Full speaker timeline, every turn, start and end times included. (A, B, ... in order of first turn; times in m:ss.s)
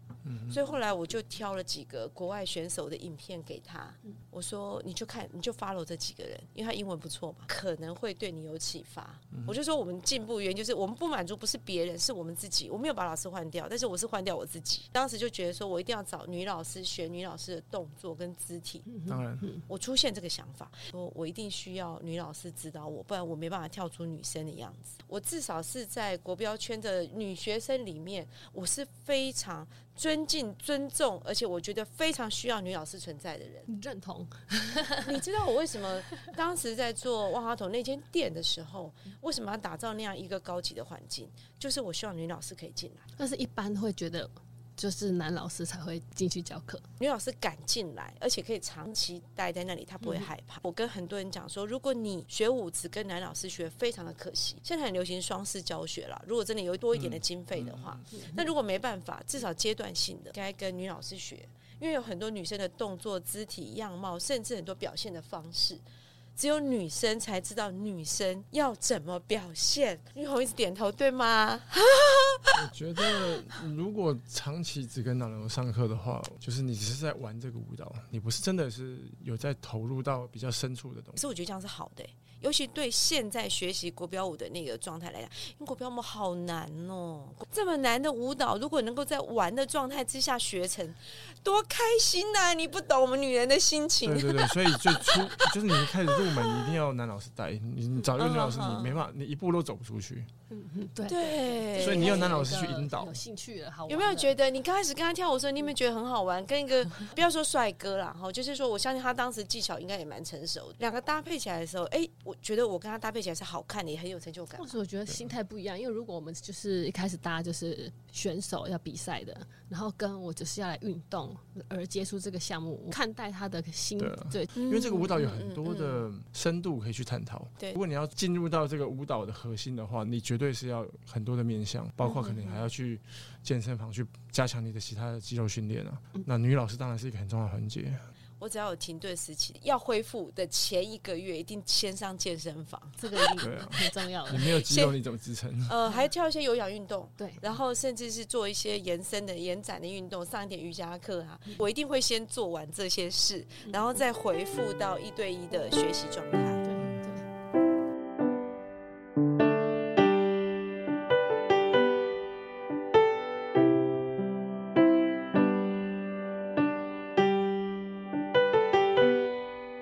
0:00.2-0:00.6 A
0:00.5-0:18.9 B
0:18.9-0:19.6 C
0:19.1-0:19.5 A
0:19.7-0:33.7 B
0:33.7-0:35.2 C
0:35.0-0:43.1 B
0:43.2-0:46.8 C
0:47.0-1:05.8 B
0:56.9-0:58.1 A
1:06.4-1:12.6 B
1:12.5-1:21.2 A
1:21.2-1:36.7 B
1:34.0-1:40.3 A
1:38.2-1:39.0 B
1:40.5-1:44.4 C
1:41.1-1:42.4 B
1:41.8-1:43.2 A
1:43.9-1:54.7 B
1:54.6-2:04.5 C
1:55.1-1:55.3 A
2:04.0-2:18.1 A
2:04.5-2:06.0 B
2:12.1-2:12.5 B
2:18.4-2:23.3 B
2:23.0-2:24.6 C
2:23.4-2:25.8 A
2:24.7-2:25.0 B
2:25.7-2:36.7 B
2:36.6-2:37.2 C